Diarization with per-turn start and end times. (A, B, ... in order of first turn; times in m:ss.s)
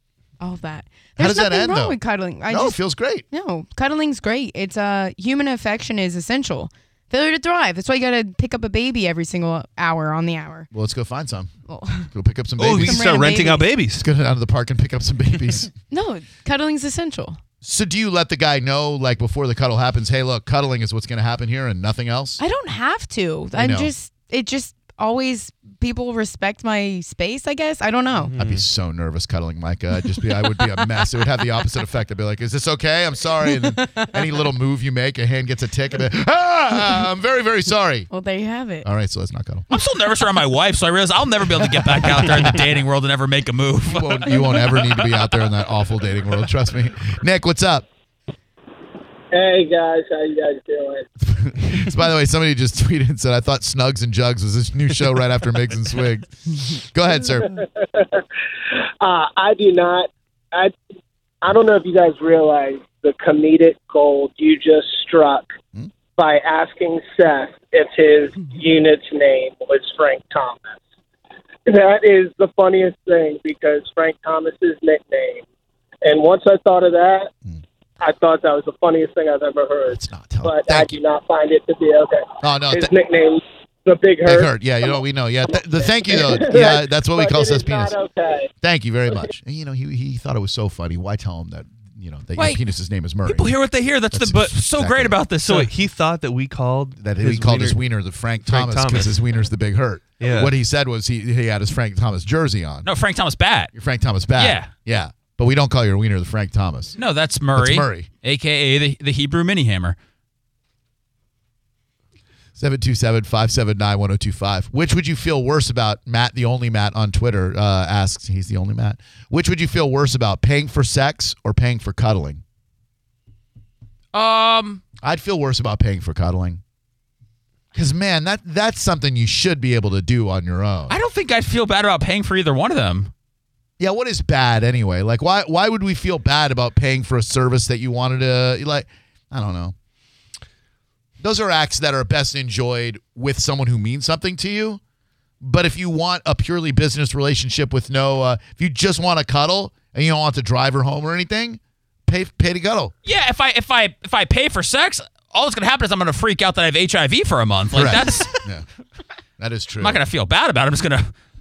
0:00.4-0:10.7 A
0:01.2-0:03.3 B
0:10.7-0:11.5 B
0:11.7-0:12.1 A
0:12.1-0:13.1 B
0:12.6-0:14.0 C
0:12.8-0:13.7 A
0:14.0-0:15.7 B
0:15.9-0:17.4 A
0:17.6-0:22.4 B
0:22.4-0:28.3 A
0:23.5-0:23.9 B
0:28.3-0:28.6 C
0:28.3-0:38.1 B
0:38.1-0:38.9 A
0:38.8-0:39.7 B
0:39.7-0:44.3 D
0:42.2-0:42.5 B
0:43.9-0:47.9 B
0:49.3-0:51.1 E
0:51.3-0:57.6 B
0:57.4-0:58.2 E
0:59.0-1:00.7 E
1:01.4-1:05.5 E
1:06.2-1:10.8 E
1:11.7-1:15.5 E
1:16.0-1:17.3 E
1:18.0-1:28.5 E
1:19.9-1:21.0 B
1:22.4-1:22.9 B
1:24.2-1:28.0 B
1:28.6-1:33.5 B
1:32.4-1:32.6 D
1:33.2-1:35.7 D
1:34.1-1:35.2 B
1:35.4-1:37.8 C
1:37.0-1:42.9 B
1:38.5-1:39.2 C
1:40.2-1:40.5 C
1:42.8-1:43.7 D
1:43.7-1:47.0 B
1:44.4-1:44.7 D
1:47.0-1:50.0 D
1:47.6-1:48.1 B
1:52.6-2:02.4 B
2:04.1-2:04.8 D
2:05.0-2:06.6 B
2:07.7-2:11.0 B
2:10.9-2:13.1 D
2:13.8-2:19.8 B
2:21.2-2:24.8 B
2:25.4-2:32.9 B
2:33.0-2:38.4 D
2:37.7-2:38.6 B
2:39.4-2:40.0 B
2:39.8-2:41.1 D